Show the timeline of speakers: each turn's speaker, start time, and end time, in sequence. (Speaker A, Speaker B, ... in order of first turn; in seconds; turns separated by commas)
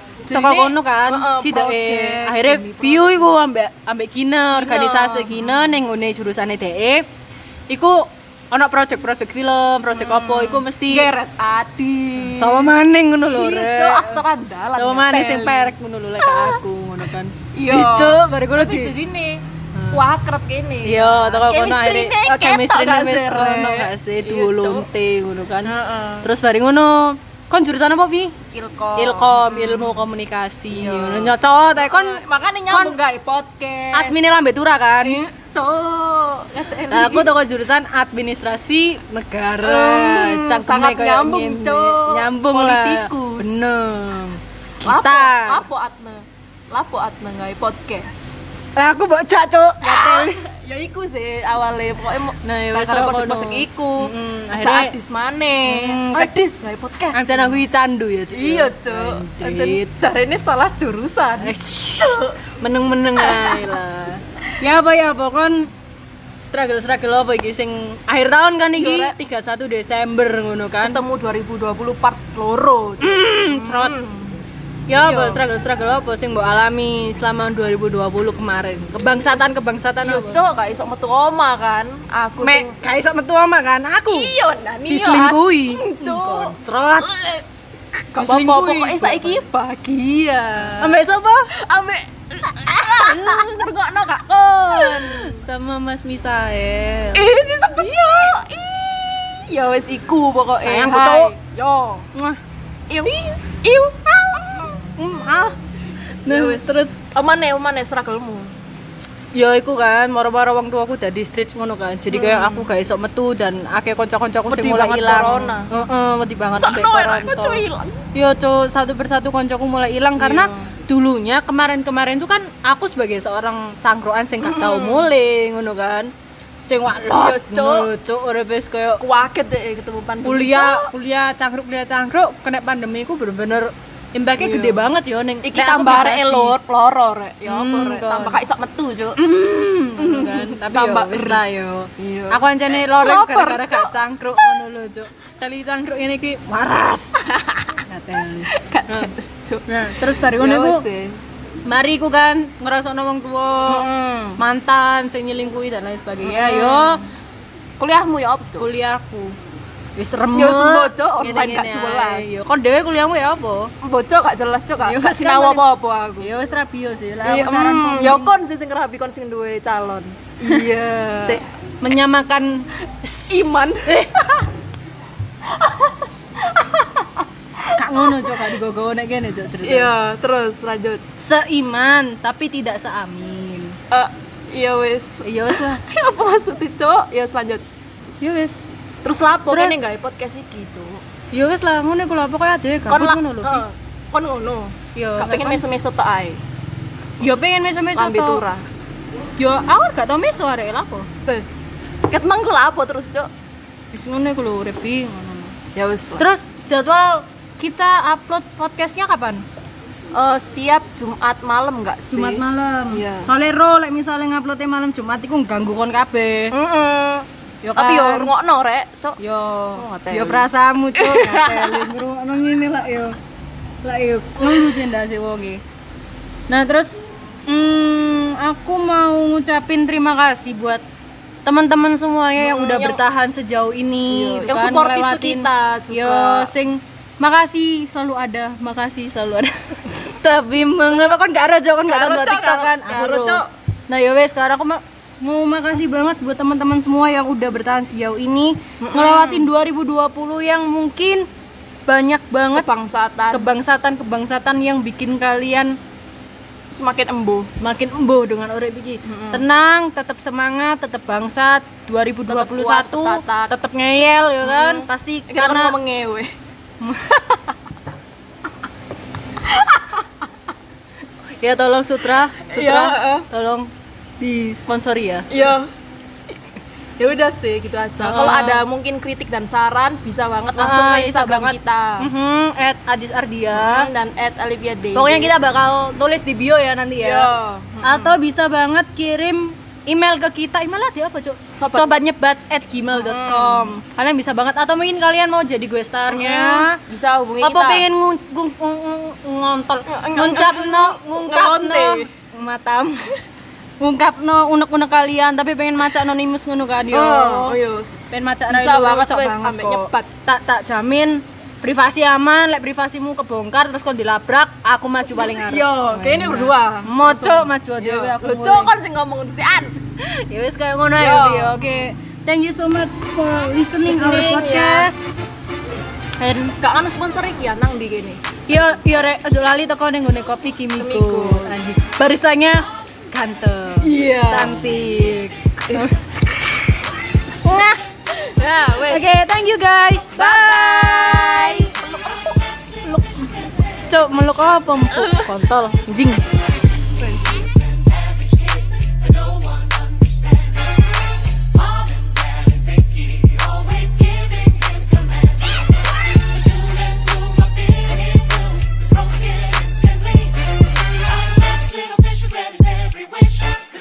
Speaker A: 0.2-3.3, Speaker B: 0.3-7.0, Speaker A: 4.5-5.7, Speaker B: 7.7-11.1, Speaker A: 9.9-12.7, Speaker B: 12.3-18.9, Speaker A: 13.3-16.6, Speaker A: 17.5-24.9, Speaker B: 19.7-20.0, Speaker B: 20.8-28.4, Speaker A: 25.6-26.3, Speaker A: 28.5-30.0, Speaker B: 28.9-33.0, Speaker A: 30.7-34.3, Speaker B: 33.9-35.2, Speaker A: 35.0-37.3, Speaker B: 36.9-45.7, Speaker A: 39.6-43.7, Speaker A: 44.8-48.3, Speaker B: 48.8-50.4, Speaker A: 49.8-57.6, Speaker B: 52.4-54.9, Speaker B: 55.6-56.5, Speaker B: 57.1-60.0, Speaker A: 58.3-62.4, Speaker B: 61.4-65.7, Speaker A: 63.2-63.7, Speaker B: 66.4-71.0, Speaker A: 68.7-69.2, Speaker A: 70.8-74.4, Speaker B: 73.0-74.0, Speaker B: 74.9-80.4, Speaker A: 74.9-75.4, Speaker A: 80.0-82.8, Speaker B: 82.4-84.3, Speaker A: 84.1-87.4, Speaker B: 84.9-87.2, Speaker A: 88.1-95.4, Speaker B: 88.2-89.4, Speaker B: 90.6-91.5, Speaker B: 94.6-97.3, Speaker A: 97.1-102.1, Speaker B: 100.6-101.3, Speaker B: 102.1-102.4, Speaker A: 102.9-104.9, Speaker B: 105.0-105.5, Speaker B: 106.2-107.0, Speaker A: 106.2-108.5, Speaker B: 109.3-126.1, Speaker A: 112.1-112.7, Speaker A: 114.5-115.7, Speaker A: 116.5-118.0, Speaker A: 120.2-120.7, Speaker A: 124.4-125.1, Speaker B: 126.6-129.0, Speaker A: 126.9-127.9, Speaker A: 129.0-130.9, Speaker B: 130.2-136.6, Speaker A: 134.4-134.9, Speaker A: 135.4-139.2, Speaker B: 137.5-138.4, Speaker B: 139.2-149.1, Speaker A: 139.9-141.4, Speaker A: 142.0-143.9, Speaker A: 147.2-147.8, Speaker A: 148.5-151.2, Speaker B: 149.7-150.8, Speaker B: 151.6-157.0, Speaker A: 153.7-154.4, Speaker A: 156.2-157.0, Speaker A: 157.8-158.7, Speaker B: 158.6-159.3, Speaker B: 159.9-163.7, Speaker A: 160.3-162.4, Speaker A: 163.8-166.3, Speaker B: 164.8-165.7, Speaker B: 166.2-168.3, Speaker A: 167.2-171.4, Speaker B: 170.4-174.1, Speaker A: 173.3-174.5, Speaker A: 175.4-178.5, Speaker B: 177.7-179.9, Speaker A: 179.6-181.0, Speaker B: 181.2-183.8, Speaker A: 183.9-187.6, Speaker B: 185.2-185.8, Speaker B: 188.2-188.6, Speaker A: 189.0-191.0, Speaker B: 189.5-189.8, Speaker B: 191.3-193.6, Speaker A: 192.9-196.4, Speaker B: 194.9-195.6, Speaker B: 197.2-198.4, Speaker A: 197.9-198.6, Speaker B: 199.3-201.1, Speaker A: 202.1-203.3, Speaker B: 203.9-205.6, Speaker A: 205.7-206.3, Speaker B: 206.2-209.4, Speaker A: 210.1-213.3, Speaker B: 212.1-216.6, Speaker A: 216.5-219.2, Speaker B: 217.6-218.3, Speaker B: 219.2-223.2, Speaker A: 219.7-222.0, Speaker B: 223.8-225.6, Speaker B: 226.5-230.8, Speaker B: 231.4-251.3, Speaker A: 232.4-233.0, Speaker A: 234.1-236.5, Speaker A: 241.9-243.5, Speaker A: 248.8-249.5, Speaker B: 251.8-252.7, Speaker A: 252.5-253.5, Speaker B: 253.3-255.8, Speaker A: 256.7-257.5, Speaker B: 257.5-265.8, Speaker A: 259.0-259.4, Speaker A: 262.3-263.5, Speaker A: 264.4-266.3, Speaker B: 266.8-267.4, Speaker A: 269.4-270.1, Speaker B: 271.4-275.5, Speaker A: 272.5-273.3, Speaker A: 275.3-275.7, Speaker A: 277.0-282.1, Speaker B: 278.0-278.7, Speaker B: 280.6-283.9, Speaker A: 283.5-285.4, Speaker B: 284.9-296.8, Speaker A: 287.0-288.2, Speaker A: 291.5-292.0, Speaker A: 292.9-293.8, Speaker A: 296.1-297.9, Speaker B: 297.4-303.2, Speaker A: 299.9-302.1, Speaker B: 303.8-307.6, Speaker A: 306.9-310.1, Speaker B: 308.1-318.7, Speaker A: 315.1-319.8, Speaker B: 320.0-325.1, Speaker A: 321.0-321.7, Speaker A: 323.8-324.9, Speaker B: 326.2-326.5, Speaker A: 326.6-328.2, Speaker B: 328.4-336.0, Speaker A: 330.8-331.6, Speaker A: 333.8-334.7, Speaker B: 337.4-337.8, Speaker A: 337.5-339.1, Speaker B: 338.8-341.7, Speaker A: 340.1-342.4, Speaker B: 342.8-343.3, Speaker B: 343.9-346.2, Speaker A: 346.9-347.5, Speaker B: 359.4-359.8, Speaker B: 361.9-363.2